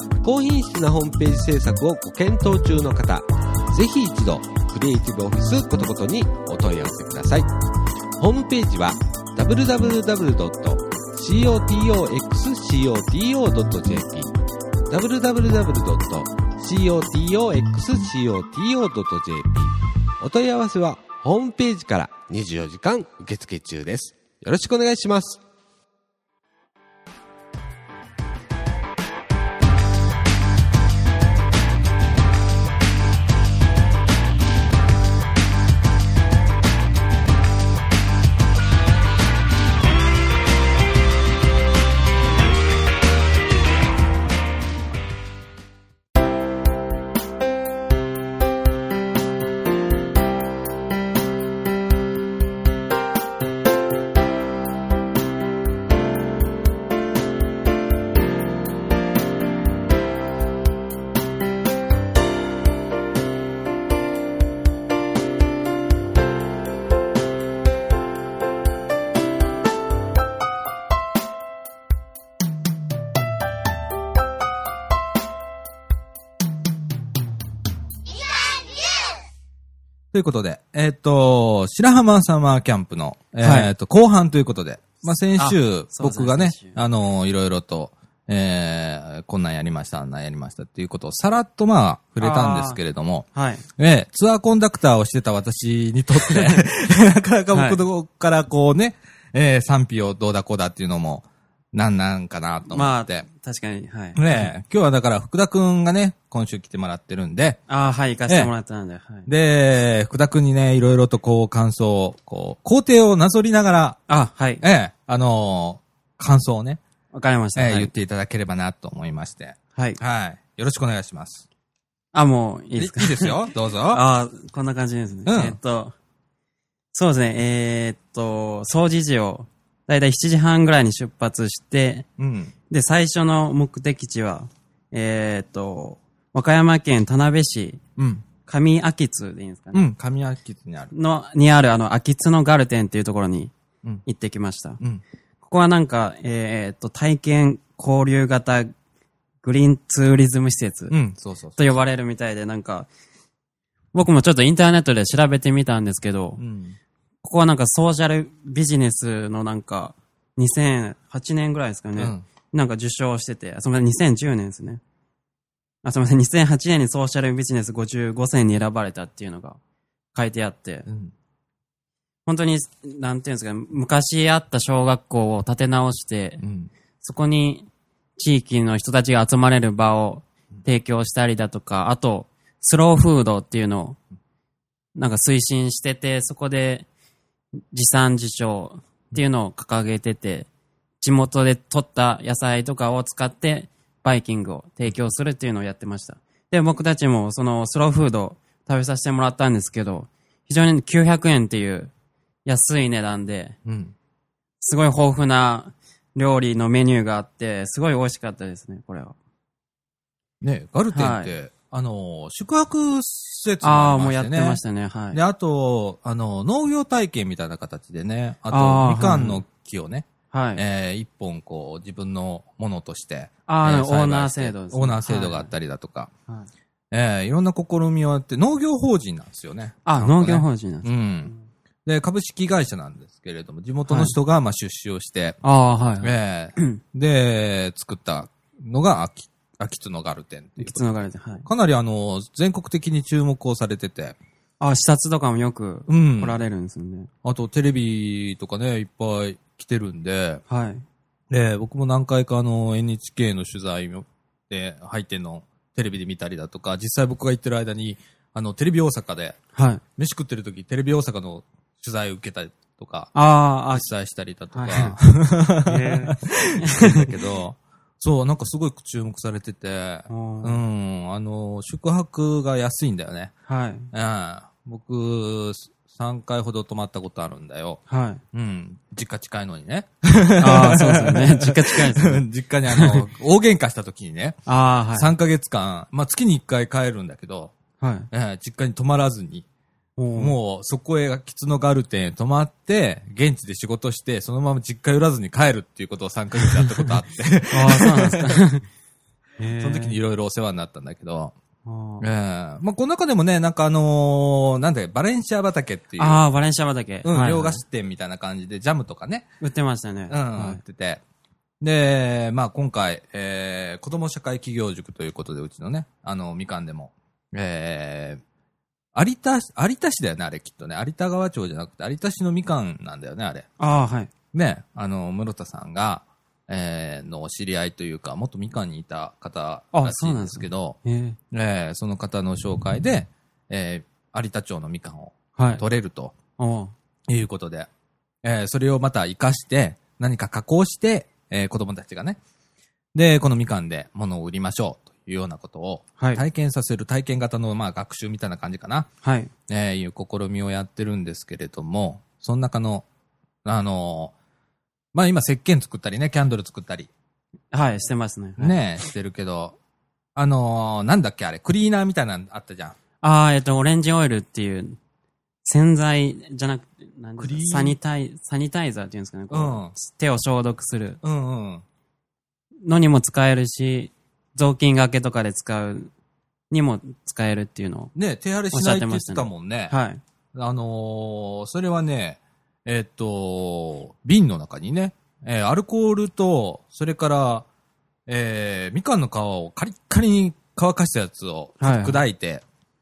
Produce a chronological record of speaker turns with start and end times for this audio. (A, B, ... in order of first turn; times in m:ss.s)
0:00.2-0:07.5 A
0:08.2-0:14.3 A
0:14.9-0:25.4 A
1:20.1-1:33.3 B
1:23.4-1:23.7 C
1:25.4-1:26.8 C
1:32.2-1:32.8 C
1:33.3-1:33.6 C
1:33.8-1:43.3 B
1:36.3-1:36.6 C
1:37.5-1:37.8 C
1:42.7-1:44.5 C
1:44.2-1:47.6 B
1:47.7-1:49.3 C
1:48.3-1:48.5 B
1:49.3-1:54.0 B
1:54.1-1:54.6 C
1:54.6-1:56.8 B
1:57.1-1:57.9 C
1:57.6-2:01.5 B
1:59.8-2:00.0 C
2:02.1-2:05.9 C
2:02.8-2:04.0 B
2:05.3-2:05.6 B
2:06.9-2:12.1 C
2:12.2-2:12.5 B
2:12.7-2:17.8 C
2:18.0-2:18.3 B
2:18.5-2:19.9 C
2:19.7-2:20.9 B
2:20.9-2:23.5 C
2:24.1-2:24.8 C
2:25.4-2:28.7 C
2:29.4-2:31.0 C
2:30.9-2:31.8 B
2:31.6-2:32.9 C
2:33.9-2:36.4 C
2:36.4-2:36.8 B
2:37.2-2:44.8 C
2:42.0-2:42.2 B
2:45.8-2:49.6 C
2:50.1-2:50.9 C
2:50.9-2:51.1 B
2:52.3-2:56.4 C
2:56.4-2:56.7 B
2:57.0-3:04.0 C
3:05.0-3:06.9 C
3:07.7-3:10.5 C
3:11.0-3:21.9 C
3:22.4-3:23.6 C
3:23.6-3:24.0 B
3:24.6-3:29.2 C
3:30.4-3:46.1 B
3:30.9-3:31.3 C
3:33.6-3:35.2 C
3:38.5-3:39.4 C
3:40.3-3:40.6 C
3:43.5-3:45.5 C
3:46.9-3:51.3 B
3:49.8-3:51.4 C
3:51.9-3:55.4 B
3:53.9-3:54.2 C
3:55.4-3:56.8 C
3:56.0-4:00.9 B
4:00.6-4:01.5 C
4:01.4-4:04.2 B
4:04.6-4:07.1 C
4:05.9-4:06.4 B
4:07.2-4:10.4 B
4:10.5-4:10.8 C
4:11.3-4:19.4 B
4:19.6-4:19.8 C
4:20.0-4:23.1 B
4:23.1-4:23.9 C
4:23.7-4:33.3 B
4:24.5-4:25.0 C
4:25.6-4:27.1 C
4:30.1-4:30.6 C
4:33.5-4:33.9 C
4:33.9-4:37.8 B
4:37.9-4:38.2 C
4:38.3-4:44.4 B
4:40.4-4:43.1 C
4:44.5-4:45.1 C
4:44.9-4:47.5 B
4:47.8-4:48.1 C
4:48.1-4:49.5 B
4:50.0-4:50.4 C
4:50.2-4:58.4 B
4:56.4-4:56.9 C
4:57.5-4:58.7 C
4:59.4-5:00.0 C
4:59.6-5:01.3 B
5:01.6-5:02.1 C
5:02.0-5:06.2 B
5:06.0-5:07.6 C
5:07.0-5:09.3 B
5:09.4-5:10.6 C
5:10.1-5:11.0 B
5:11.6-5:18.2 B
5:19.0-5:23.5 B
5:23.6-5:24.1 C
5:24.3-5:30.8 B
5:29.7-5:31.2 C
5:31.3-5:36.2 B
5:35.4-5:35.6 C
5:36.4-5:36.7 C
5:37.1-5:37.7 B
5:38.2-5:42.2 B
5:42.9-5:48.9 B
5:46.0-5:46.2 C
5:49.0-5:49.3 C
5:49.5-5:52.9 B
5:53.4-5:54.1 B
5:54.9-5:56.9 B
5:57.5-5:58.6 C
5:58.4-5:59.6 B
6:00.2-6:02.8 B
6:03.0-6:04.8 C
6:05.4-6:11.0 C
6:07.2-6:07.8 B
6:09.3-6:09.7 B
6:11.0-6:11.6 B
6:12.6-6:15.9 C
6:16.5-6:17.9 C
6:18.0-6:19.8 B
6:18.5-6:20.0 C
6:20.3-6:27.5 B
6:28.1-6:32.4 B
6:31.6-6:32.0 C